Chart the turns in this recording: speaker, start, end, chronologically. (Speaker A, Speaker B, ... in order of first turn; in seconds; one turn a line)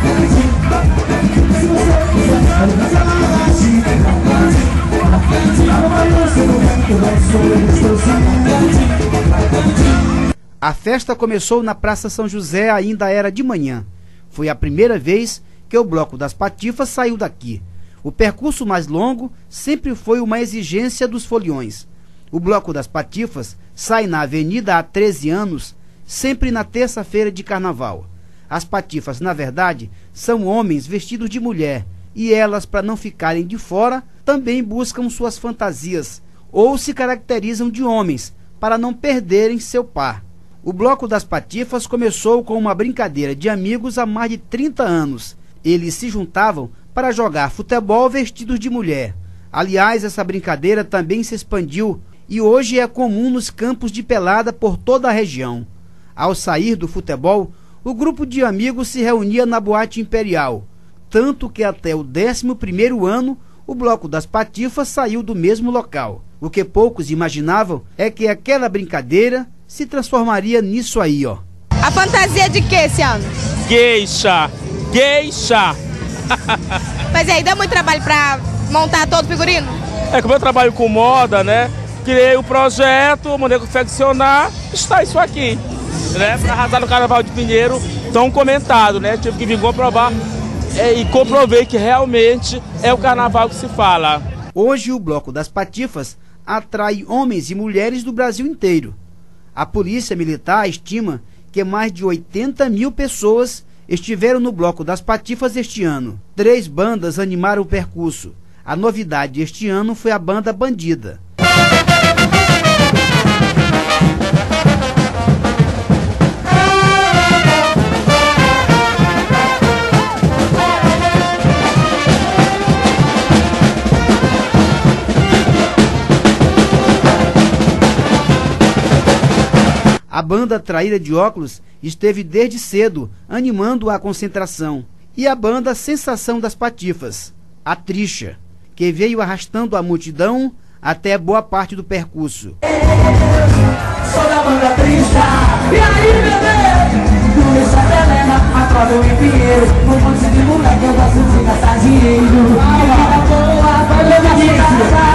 Speaker A: 7.1-7.6
Speaker B: 10.6-71.4
Speaker C: 71.8-73.5
Speaker A: 73.6-75.8
Speaker A: 76.3-76.8
Speaker C: 77.1-79.8
Speaker A: 80.1-85.6
Speaker A: 86.1-90.1
Speaker A: 90.7-94.2
Speaker B: 94.5-99.0
Speaker B: 99.5-111.2
Speaker B: 130.1-142.6
Speaker A: 144.1-146.5
Speaker A: 147.4-150.4
Speaker C: 150.8-151.1
Speaker A: 152.1-153.2
Speaker C: 153.3-154.6